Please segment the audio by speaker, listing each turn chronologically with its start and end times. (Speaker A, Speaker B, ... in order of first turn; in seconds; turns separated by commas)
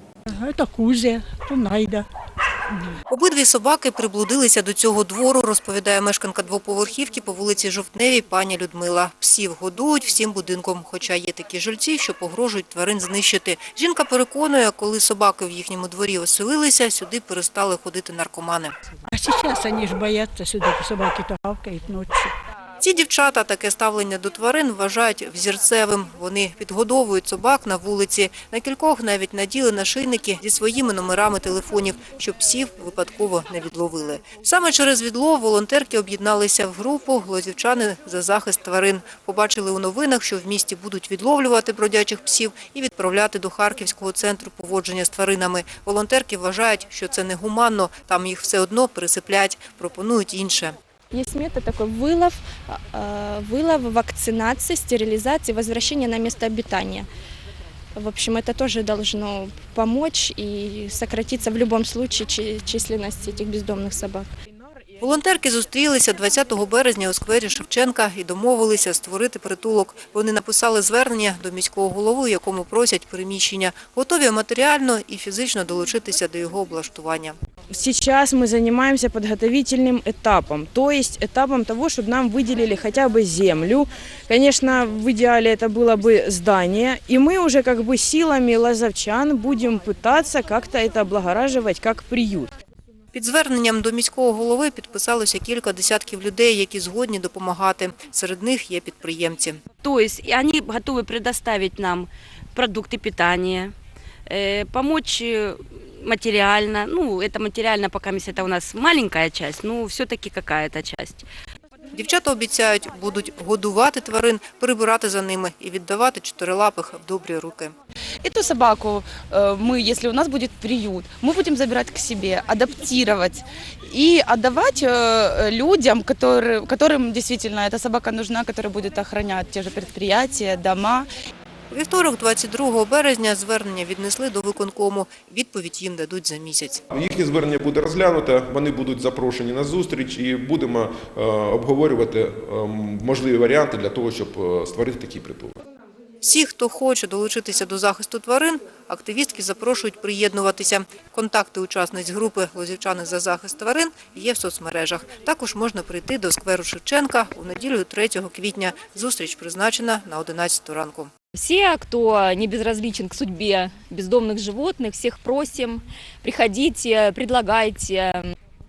Speaker A: 0.3-2.0, Speaker B: 3.1-18.7, Speaker A: 19.1-22.3, Speaker B: 22.8-50.8, Speaker C: 51.1-57.1, Speaker C: 58.0-64.3, Speaker B: 65.0-77.4, Speaker D: 77.7-92.5, Speaker B: 93.1-99.6, Speaker E: 99.8-103.7, Speaker E: 104.3-111.2, Speaker B: 111.9-117.7, Speaker F: 118.2-131.1, Speaker B: 131.7-136.8, Speaker G: 136.9-145.6, Speaker B: 146.2-161.1, Speaker H: 161.3-168.3